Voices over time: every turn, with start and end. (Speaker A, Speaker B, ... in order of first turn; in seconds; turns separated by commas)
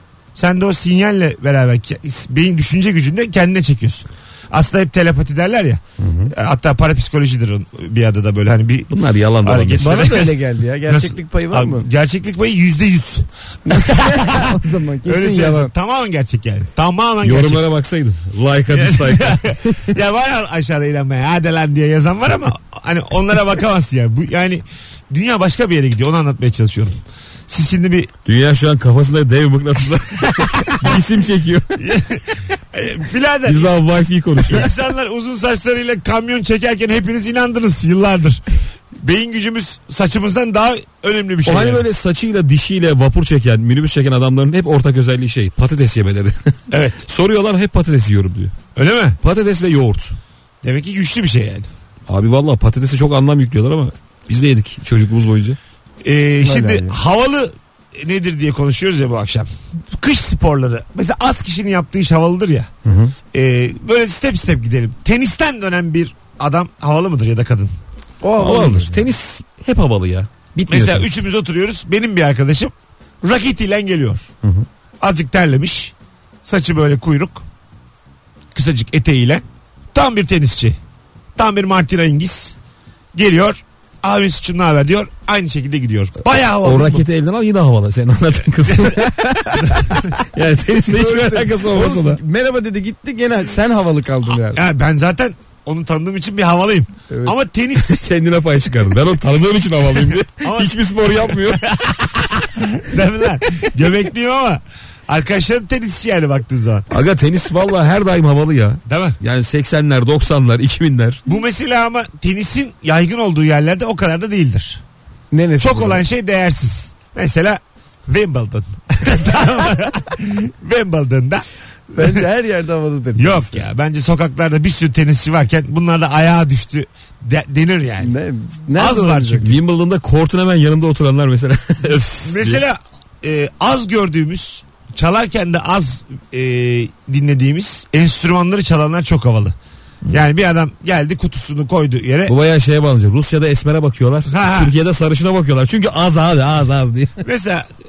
Speaker A: 0.4-8.9, Speaker B: 6.0-6.3, Speaker B: 8.9-10.1, Speaker A: 9.4-10.3, Speaker C: 9.8-11.9, Speaker A: 10.9-17.6, Speaker C: 13.7-15.7, Speaker B: 17.2-19.8, Speaker A: 18.7-28.1, Speaker B: 28.3-31.8, Speaker A: 31.8-33.7, Speaker B: 33.5-34.8, Speaker A: 34.5-41.9, Speaker B: 41.5-48.5, Speaker A: 46.7-47.0, Speaker A: 48.8-49.2, Speaker B: 49.2-50.2, Speaker A: 50.6-51.7, Speaker B: 52.1-55.6, Speaker A: 56.0-62.7, Speaker C: 56.4-57.0, Speaker B: 62.9-63.1, Speaker A: 63.3-67.7, Speaker C: 68.2-69.1, Speaker B: 68.4-71.1, Speaker A: 70.7-74.3, Speaker A: 75.0-77.5, Speaker A: 78.5-80.8, Speaker A: 81.4-82.6, Speaker A: 83.1-87.0, Speaker B: 86.6-89.6, Speaker C: 89.0-90.1, Speaker B: 90.3-92.2, Speaker C: 90.8-94.6, Speaker A: 94.5-98.0, Speaker C: 97.1-97.4, Speaker B: 97.9-101.6, Speaker A: 100.4-106.9, Speaker B: 106.9-111.2, Speaker A: 108.9-109.2, Speaker A: 111.3-114.8, Speaker C: 115.3-116.0, Speaker A: 115.6-122.2, Speaker C: 122.0-123.7, Speaker A: 123.2-128.1, Speaker C: 128.0-129.5, Speaker A: 128.8-129.5, Speaker B: 129.4-132.6, Speaker A: 132.2-139.6, Speaker A: 140.1-142.3, Speaker B: 142.3-147.2, Speaker A: 144.3-144.7, Speaker A: 147.2-147.7